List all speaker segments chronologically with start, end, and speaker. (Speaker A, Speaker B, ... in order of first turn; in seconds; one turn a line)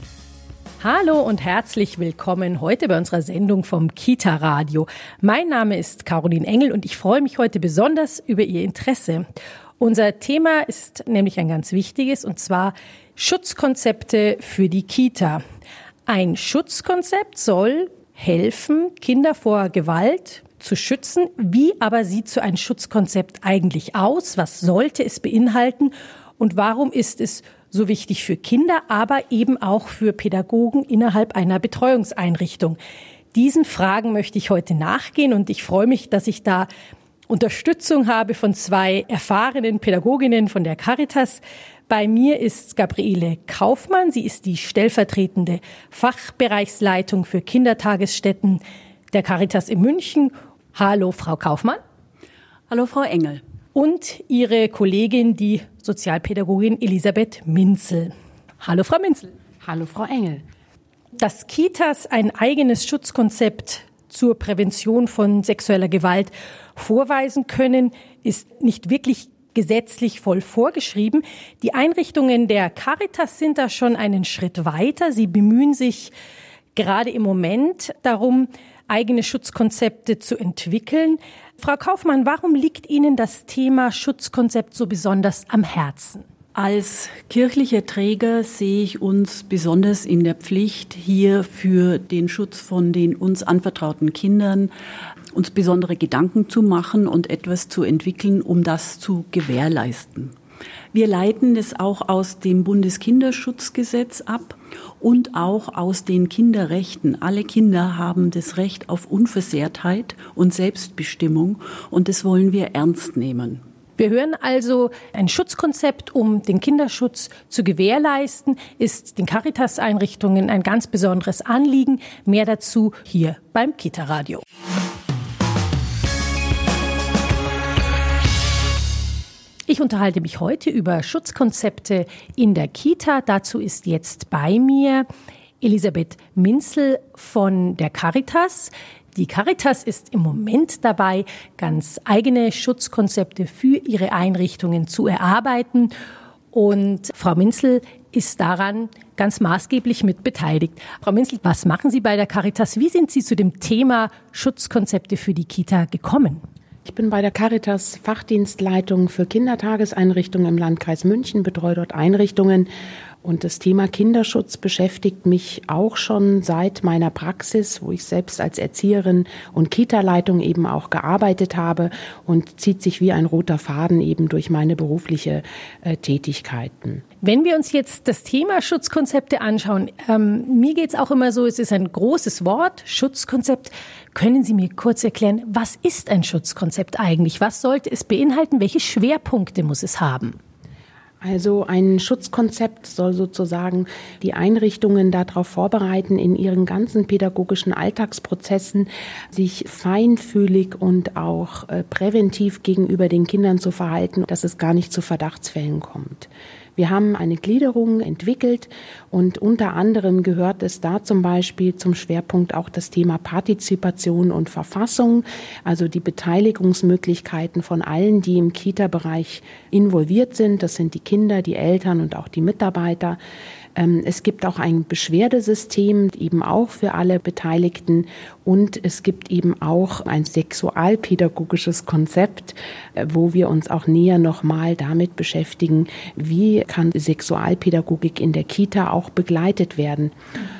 Speaker A: 0.8-9.2
Speaker A: 9.8-15.4
Speaker A: 16.1-32.8
Speaker A: 33.3-36.7
Speaker A: 37.3-48.6
Speaker A: 49.1-51.8
Speaker B: 52.7-53.4
Speaker A: 53.7-59.3
Speaker C: 59.6-60.4
Speaker A: 61.2-76.1
Speaker A: 76.7-86.2
Speaker B: 86.5-94.7
Speaker B: 95.3-100.3
Speaker B: 100.9-113.6
Speaker A: 114.0-124.4
Speaker A: 129.7-135.1
Speaker A: 135.6-145.9
Speaker A: 146.5-156.4
Speaker C: 156.9-162.7
Speaker C: 163.2-177.0
Speaker A: 177.2-190.3
Speaker C: 191.2-223.2
Speaker C: 223.8-240.1